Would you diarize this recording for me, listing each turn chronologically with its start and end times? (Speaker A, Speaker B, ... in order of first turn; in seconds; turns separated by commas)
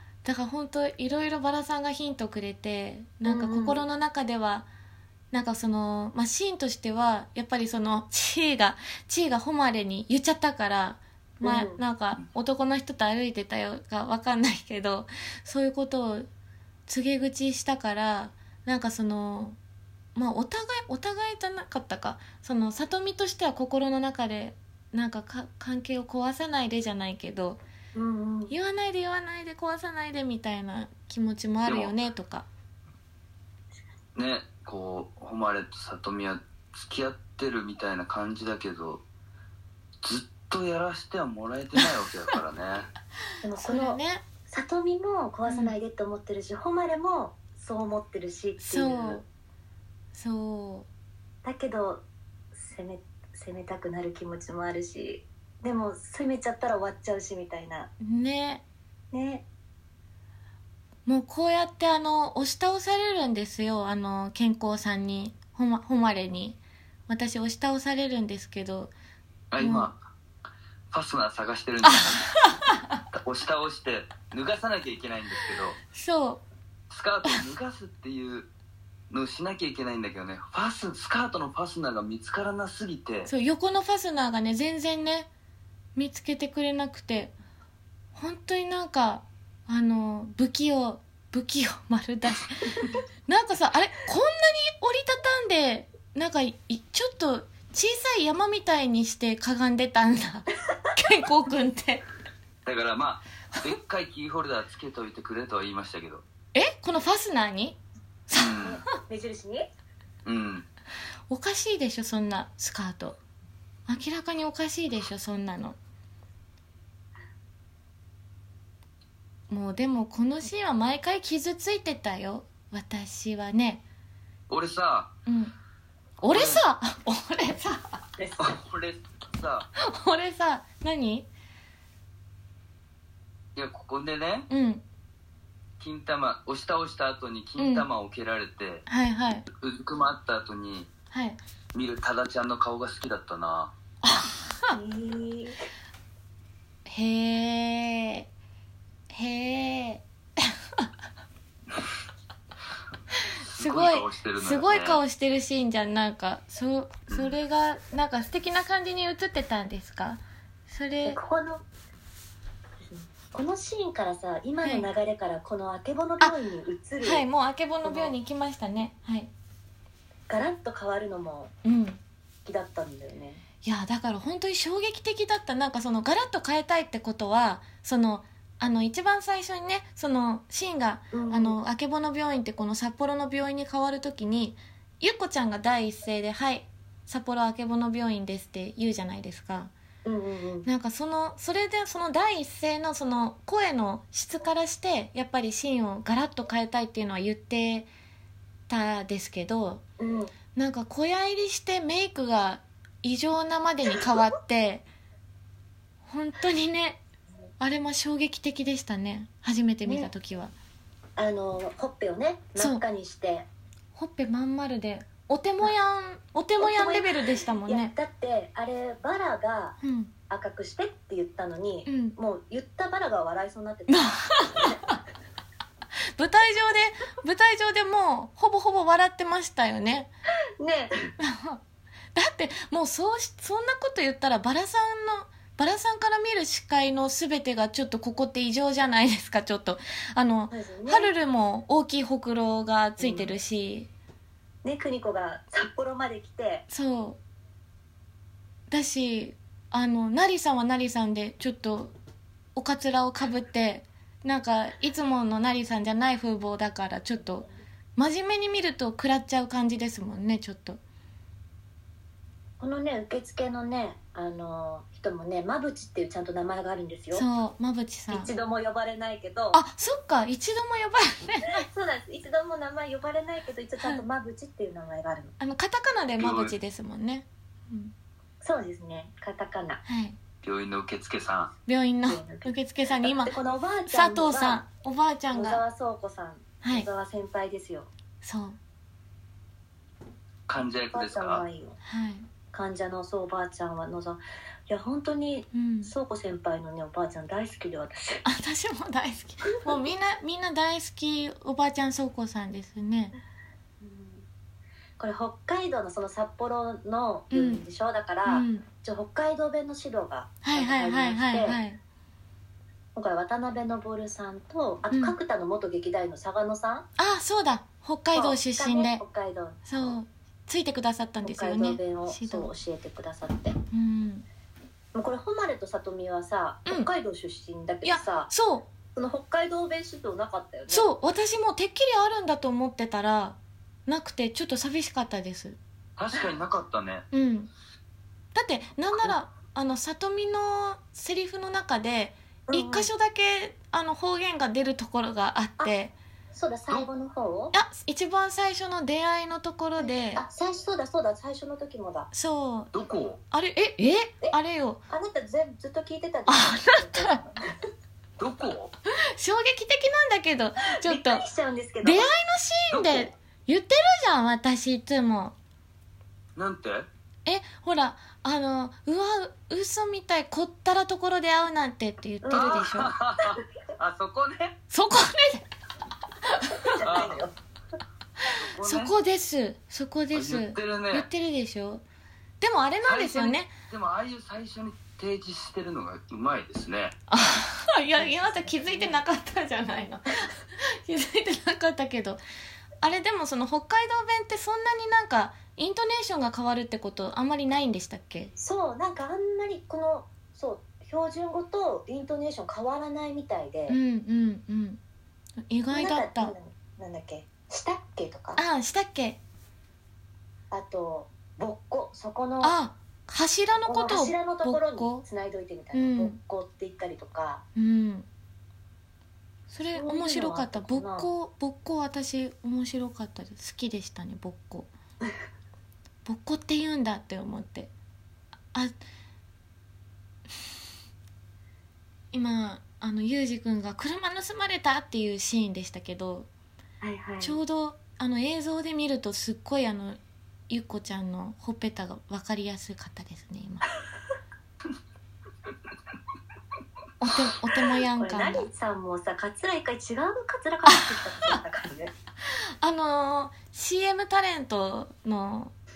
Speaker A: 0.2-4.7, Speaker B: 3.2-3.8, Speaker A: 5.3-16.3, Speaker B: 11.4-11.8, Speaker A: 16.9-19.6, Speaker A: 20.1-27.6, Speaker B: 27.9-28.5, Speaker A: 28.5-32.5, Speaker C: 31.7-31.9, Speaker C: 34.1-39.0, Speaker C: 40.0-42.9, Speaker B: 43.4-49.2, Speaker A: 43.6-44.2, Speaker A: 45.5-45.8, Speaker A: 48.6-49.2, Speaker A: 50.1-50.9, Speaker B: 51.4-57.9, Speaker A: 58.0-58.6, Speaker B: 59.1-59.5, Speaker A: 61.1-68.9, Speaker C: 69.5-70.0, Speaker A: 69.6-69.9, Speaker C: 70.9-72.3, Speaker A: 71.8-73.0, Speaker C: 73.1-75.8, Speaker A: 75.9-76.4, Speaker C: 76.9-78.5, Speaker C: 79.1-83.3, Speaker A: 83.3-85.3, Speaker A: 86.0-87.3, Speaker A: 88.2-102.0, Speaker C: 102.7-106.2, Speaker A: 106.5-108.6, Speaker C: 108.3-108.8, Speaker B: 108.6-109.7, Speaker C: 110.2-110.7, Speaker A: 111.3-113.2, Speaker A: 113.9-115.8, Speaker A: 119.5-123.8, Speaker C: 124.5-125.1, Speaker A: 125.3-125.5, Speaker A: 126.2-128.0, Speaker C: 126.3-126.6, Speaker B: 128.2-128.5, Speaker C: 128.4-129.7, Speaker A: 129.8-131.3, Speaker C: 133.6-134.5, Speaker A: 134.5-134.8, Speaker C: 135.8-138.8, Speaker A: 137.6-137.9, Speaker A: 138.9-139.5, Speaker C: 139.5-140.9, Speaker A: 141.1-141.4, Speaker C: 141.7-143.7, Speaker A: 144.0-144.8, Speaker B: 144.7-145.6, Speaker A: 146.9-148.3, Speaker A: 149.1-150.9, Speaker A: 153.3-161.2, Speaker C: 153.4-155.0, Speaker C: 157.1-157.4, Speaker B: 161.1-161.6, Speaker B: 162.8-167.2, Speaker A: 164.6-164.9, Speaker A: 167.0-169.3, Speaker B: 167.8-168.2, Speaker B: 170.3-171.5, Speaker A: 171.6-172.0, Speaker B: 172.4-173.4, Speaker A: 173.6-189.7, Speaker B: 181.1-181.6, Speaker B: 190.1-190.7, Speaker A: 190.7-197.9, Speaker A: 198.7-199.8, Speaker B: 200.0-200.3, Speaker A: 200.6-204.8, Speaker A: 206.1-207.0, Speaker A: 207.6-210.5, Speaker B: 209.8-210.1, Speaker B: 211.2-213.5, Speaker A: 212.6-212.8, Speaker A: 213.9-217.9, Speaker B: 216.6-219.8, Speaker A: 219.8-220.1, Speaker B: 220.3-224.9, Speaker A: 221.9-222.2, Speaker A: 223.9-225.0, Speaker A: 226.2-230.1, Speaker B: 230.6-231.0, Speaker A: 231.2-231.6, Speaker A: 232.2-243.9, Speaker B: 240.5-241.1, Speaker B: 243.0-243.3, Speaker B: 244.6-246.7, Speaker A: 246.7-247.2, Speaker A: 248.7-251.9, Speaker A: 252.6-260.8, Speaker B: 262.6-267.3, Speaker A: 267.1-268.3, Speaker B: 268.1-269.6, Speaker A: 269.5-271.7, Speaker B: 271.4-275.4, Speaker A: 275.4-277.9, Speaker C: 276.2-276.5, Speaker B: 278.4-279.8, Speaker A: 279.9-280.2, Speaker C: 280.4-281.5, Speaker A: 281.7-283.3, Speaker B: 282.1-284.6, Speaker A: 283.9-285.6, Speaker B: 285.3-287.9, Speaker A: 286.6-286.9, Speaker A: 288.2-288.6, Speaker C: 290.5-291.4, Speaker B: 290.9-291.8, Speaker A: 291.9-292.3, Speaker B: 292.5-298.2, Speaker A: 295.5-295.9, Speaker A: 298.2-303.1, Speaker B: 303.8-304.3, Speaker B: 305.0-311.6, Speaker A: 307.3-307.7, Speaker A: 308.2-308.7, Speaker A: 310.4-311.8, Speaker B: 312.9-316.9, Speaker A: 317.0-319.0, Speaker B: 318.1-319.9, Speaker A: 319.7-322.5, Speaker B: 321.2-323.6, Speaker A: 323.7-324.3, Speaker B: 324.9-328.3, Speaker A: 327.8-328.7, Speaker B: 329.0-330.9, Speaker A: 330.7-333.4, Speaker A: 333.9-335.6, Speaker C: 336.0-337.1, Speaker A: 337.1-337.5, Speaker A: 338.4-345.9, Speaker B: 342.5-342.9, Speaker B: 346.3-347.5, Speaker A: 347.5-350.2, Speaker B: 349.8-352.1, Speaker A: 352.1-352.7, Speaker C: 352.7-353.2, Speaker A: 353.3-354.8, Speaker B: 354.9-357.5, Speaker A: 356.3-357.2, Speaker C: 358.2-358.7, Speaker A: 359.2-361.2, Speaker B: 360.8-362.1, Speaker A: 361.8-365.4, Speaker C: 362.7-363.1, Speaker C: 366.4-366.9, Speaker A: 367.3-372.9, Speaker B: 372.2-372.8, Speaker C: 372.4-374.6, Speaker A: 374.7-375.5, Speaker A: 376.3-376.7, Speaker B: 376.6-377.3, Speaker C: 376.8-377.2, Speaker C: 378.6-378.9, Speaker A: 378.6-381.8, Speaker C: 380.1-381.1, Speaker A: 382.4-383.5, Speaker C: 382.9-386.9, Speaker A: 387.1-392.2, Speaker B: 388.0-389.0, Speaker A: 392.8-398.3, Speaker B: 398.4-403.8, Speaker A: 403.7-404.8, Speaker A: 405.5-406.3, Speaker B: 405.7-408.4, Speaker A: 408.4-409.2, Speaker B: 410.5-412.6, Speaker A: 412.4-415.0, Speaker B: 413.6-417.4, Speaker A: 415.7-416.2, Speaker A: 417.6-418.1, Speaker A: 419.5-424.7, Speaker B: 419.7-421.1, Speaker A: 426.1-427.7, Speaker A: 432.1-436.3, Speaker B: 436.8-437.4, Speaker A: 437.2-443.7, Speaker A: 447.0-448.5, Speaker B: 448.0-451.9, Speaker A: 450.7-451.4, Speaker A: 452.6-455.6